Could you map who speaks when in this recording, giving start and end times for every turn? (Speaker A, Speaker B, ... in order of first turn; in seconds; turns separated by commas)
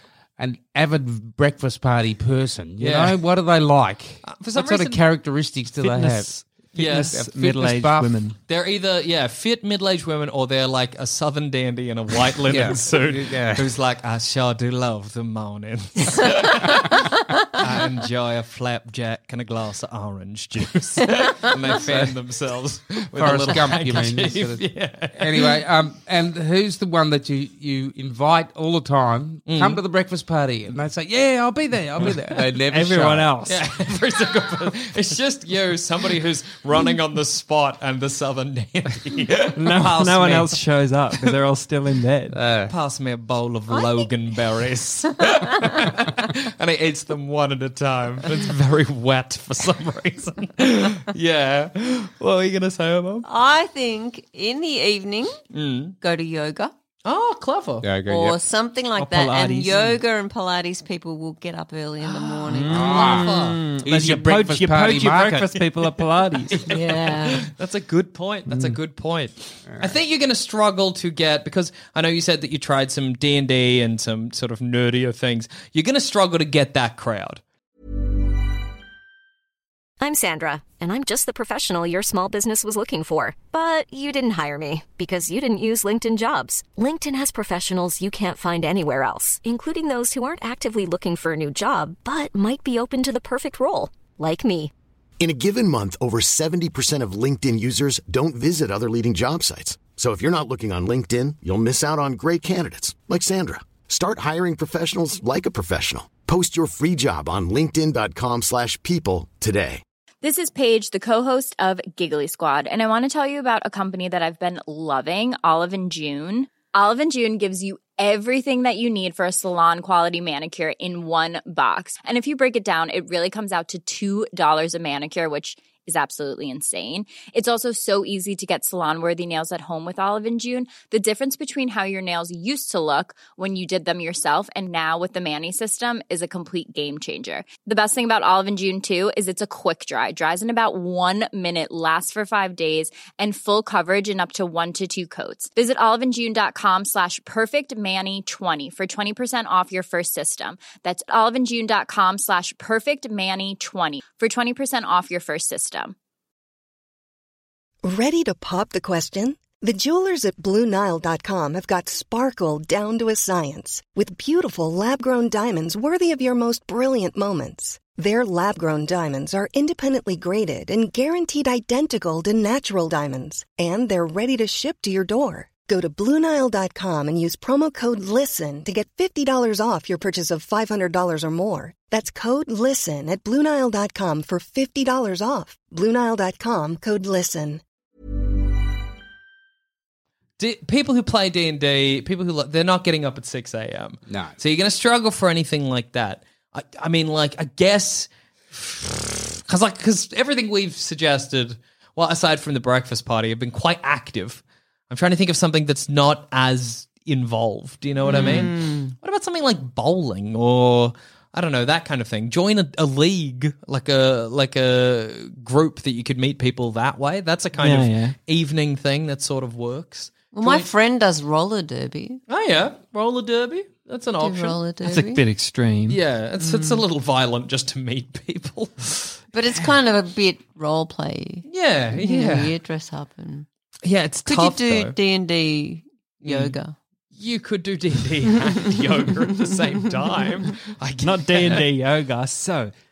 Speaker A: 0.4-8.2, Speaker B: 2.8-3.2, Speaker B: 4.2-5.0, Speaker C: 5.8-8.4, Speaker B: 6.7-7.2, Speaker B: 8.5-25.6, Speaker A: 12.5-13.7, Speaker A: 21.6-22.1, Speaker A: 23.1-33.3, Speaker B: 29.5-29.8, Speaker C: 32.6-33.8, Speaker B: 33.4-40.6, Speaker C: 39.5-42.4, Speaker A: 42.3-42.7, Speaker B: 42.7-53.2, Speaker D: 53.2-55.4, Speaker B: 55.5-55.9, Speaker D: 56.0-56.7, Speaker B: 57.0-57.9, Speaker A: 57.8-58.4, Speaker D: 58.1-63.1, Speaker C: 59.0-60.0, Speaker C: 62.5-66.7, Speaker B: 62.6-63.6, Speaker A: 62.7-63.3, Speaker A: 63.8-65.6, Speaker D: 66.7-67.5, Speaker B: 67.4-77.4, Speaker C: 68.5-68.8, Speaker E: 80.0-94.7, Speaker F: 95.2-109.8, Speaker G: 110.2-155.9, Speaker H: 157.8-187.6, Speaker B: 190.4-220.7, Speaker A: 194.1-194.3, Speaker D: 208.0-208.9, Speaker C: 217.6-218.2, Speaker D: 220.3-222.2, Speaker B: 222.3-224.6, Speaker D: 224.2-225.2, Speaker C: 224.8-226.0, Speaker B: 225.9-229.2, Speaker D: 226.4-226.8, Speaker D: 229.3-233.4, Speaker B: 231.5-232.5, Speaker B: 233.8-234.9, Speaker D: 234.2-236.7, Speaker B: 236.2-236.6, Speaker B: 237.1-241.6, Speaker C: 241.0-242.7